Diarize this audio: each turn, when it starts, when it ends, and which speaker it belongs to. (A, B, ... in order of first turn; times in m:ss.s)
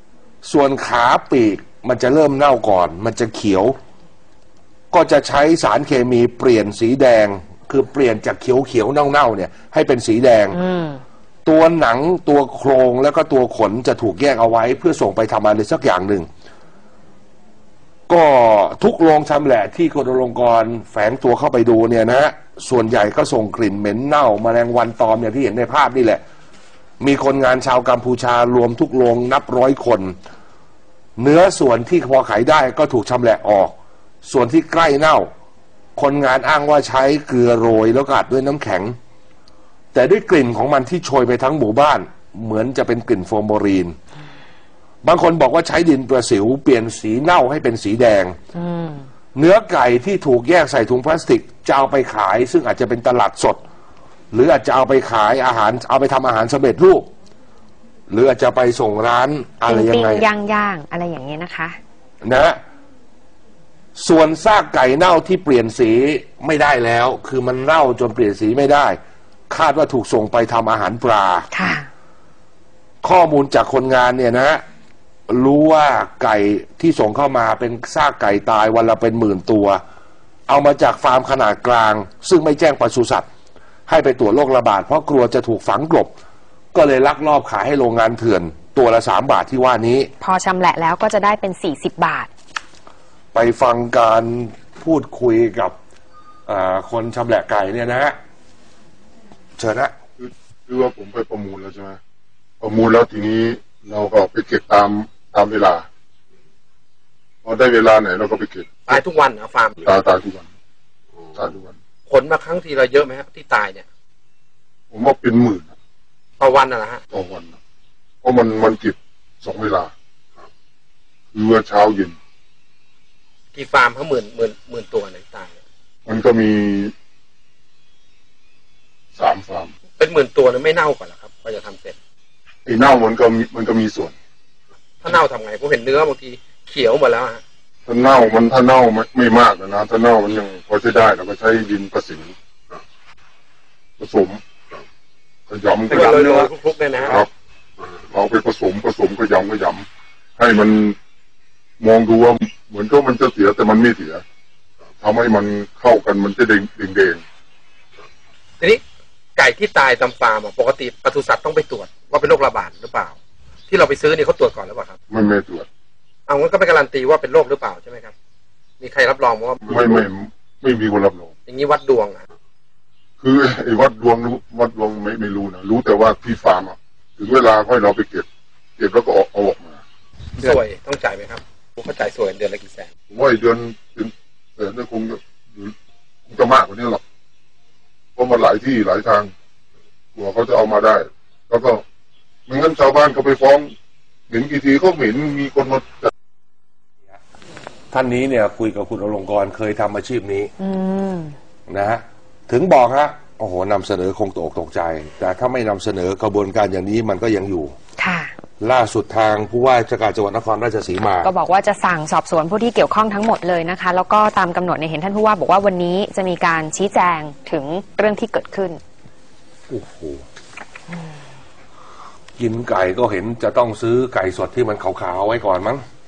0:00.4-0:03.8 A
0:04.9-0:10.6 A
0:10.5-0:11.0 B
0:11.4-0:16.3 A
0:18.1-0:26.2 A
0:27.0-0:30.1 A
0:31.2-0:35.3 A
0:36.0-0:39.0 A
0:39.9-0:44.0 A
0:45.0-0:48.4 A
0:48.5-0:49.0 B
0:49.3-0:53.6 A
0:54.3-0:57.1 A
0:58.1-1:00.2 A
0:59.7-1:01.8 B
1:02.2-1:02.6 A
1:04.0-1:09.0 A
1:09.5-1:11.5 A
1:11.5-1:11.9 B
1:13.0-1:14.6 A
1:15.3-1:19.8 A
1:20.5-1:23.2 A
1:23.9-1:26.1 A
1:26.7-1:30.1 A
1:30.2-1:32.3 B
1:33.3-1:35.8 A
1:36.5-1:38.2 A
1:39.6-1:39.9 A
1:40.2-1:42.0 C
1:42.6-1:45.8 C
1:47.4-1:49.0 C
1:48.9-1:49.9 D
1:49.8-1:50.5 C
1:51.3-1:51.7 C
1:52.1-1:53.8 D
1:54.9-1:55.7 C
1:56.4-1:57.0 D
1:57.1-1:57.5 C
1:58.2-1:59.9 C
2:01.3-2:02.1 C
2:03.5-2:05.6 D
2:06.0-2:06.9 C
2:09.1-2:09.7 C
2:10.0-2:12.0 D
2:12.6-2:14.1 C
2:15.0-2:17.4 D
2:17.9-2:22.3 C
2:24.0-2:24.4 C
2:25.5-2:26.4 C
2:25.9-2:27.2 D
2:26.2-2:26.5 A
2:27.0-2:27.3 C
2:28.1-2:29.8 C
2:30.4-2:31.0 C
2:31.8-2:34.2 C
2:35.0-2:37.2 C
2:39.4-2:43.2 D
2:43.7-2:45.0 D
2:45.1-2:45.7 C
2:46.3-2:48.1 D
2:48.8-2:50.0 D
2:49.6-2:51.3 C
2:51.5-2:52.2 D
2:53.2-2:59.8 C
3:00.4-3:02.9 D
3:03.1-3:05.7 C
3:06.3-3:07.0 C
3:08.2-3:09.3 C
3:10.1-3:11.8 C
3:12.5-3:13.7 C
3:14.3-3:16.1 C
3:17.9-3:20.5 A
3:20.6-3:21.4 B
3:21.7-3:27.7 A
3:28.0-3:28.3 B
3:28.6-3:31.3 A
3:31.2-3:38.8 B
3:39.7-3:40.2 A
3:42.4-3:45.8 A